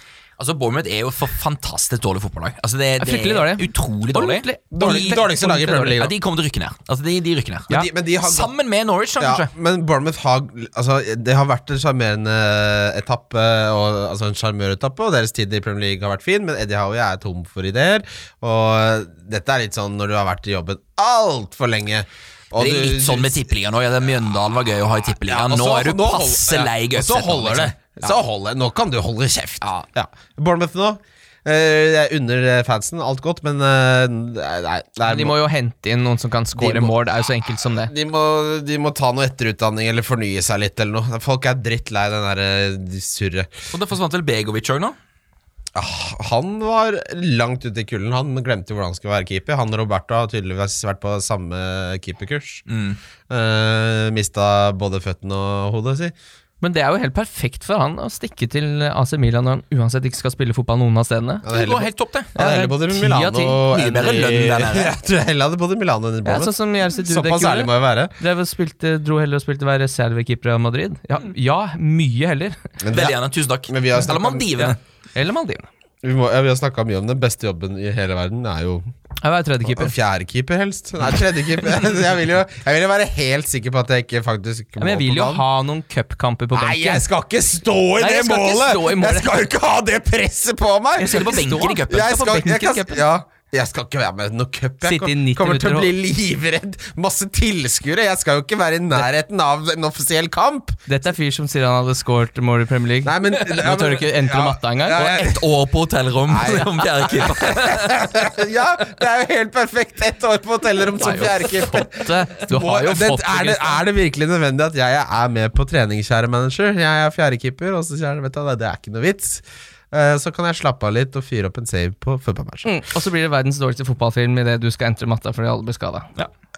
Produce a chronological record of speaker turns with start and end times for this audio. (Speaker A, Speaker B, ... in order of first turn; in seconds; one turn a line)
Speaker A: 0.4-5.2
Speaker B: 3.0-6.0
Speaker C: 4.7-6.2
Speaker A: 5.9-9.5
Speaker C: 7.7-8.5
Speaker C: 9.2-23.5
Speaker A: 22.6-28.1
Speaker C: 25.3-35.4
Speaker A: 29.6-29.9
Speaker B: 35.0-37.9
Speaker C: 36.6-37.0
Speaker C: 37.8-43.5
Speaker A: 43.7-45.0
Speaker C: 45.7-52.6
Speaker A: 52.7-53.0
Speaker C: 53.3-56.1
Speaker B: 56.6-61.4
Speaker C: 61.4-68.1
Speaker A: 61.5-62.4
Speaker B: 62.4-63.6
Speaker A: 63.7-64.9
Speaker B: 66.2-72.6
Speaker C: 72.8-73.2
Speaker A: 72.9-74.8
Speaker C: 73.7-74.7
Speaker B: 75.1-75.7
Speaker C: 76.0-78.8
Speaker B: 79.2-79.9
Speaker C: 79.7-85.4
Speaker B: 84.8-87.0
Speaker C: 86.5-100.8
Speaker B: 88.0-89.4
Speaker B: 91.0-93.0
Speaker A: 91.0-92.1
Speaker B: 94.8-95.9
Speaker B: 100.9-105.0
Speaker C: 103.0-105.5
Speaker A: 104.9-108.0
Speaker C: 106.3-122.7
Speaker B: 111.0-113.8
Speaker B: 122.6-126.1